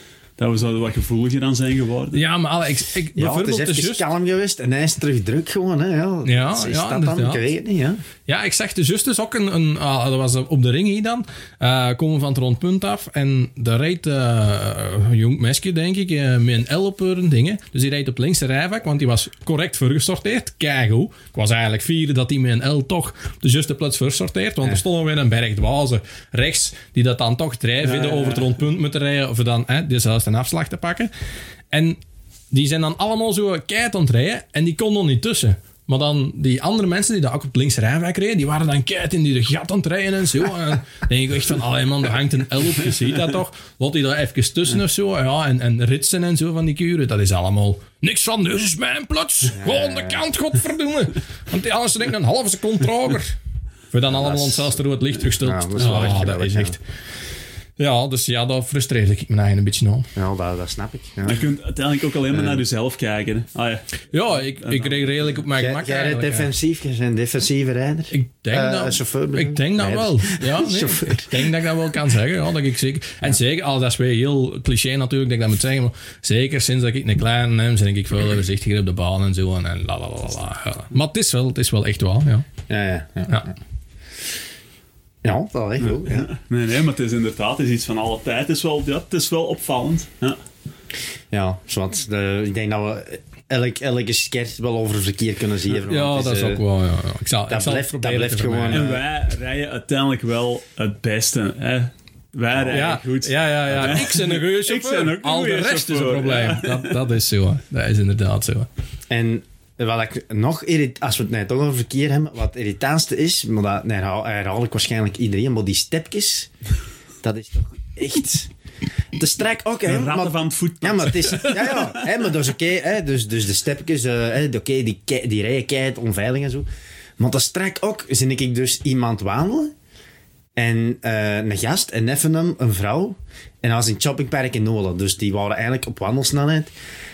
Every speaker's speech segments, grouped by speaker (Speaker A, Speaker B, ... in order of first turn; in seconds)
Speaker A: 0.4-2.2, 27.8-28.5, 61.2-63.8, 64.6-65.0, 85.8-90.4, 98.7-106.9, 119.8-121.9
Speaker B: 2.1-4.1, 6.2-7.4, 8.2-31.1, 31.7-32.0, 32.5-53.4, 53.9-56.8, 57.8-60.1, 64.1-66.5, 68.1-82.5, 95.8-98.9, 102.7-108.7
Speaker C: 3.1-8.0, 49.5-50.2, 54.1-54.7, 55.4-56.8, 60.1-61.4, 62.3-62.6, 65.5-71.4, 82.7-83.5, 85.2-86.3, 91.3-96.6, 97.5-99.0, 102.5-102.8, 103.7-104.1, 109.1-116.5, 117.2-118.5, 119.1-126.7, 127.2-129.7, 130.6-136.7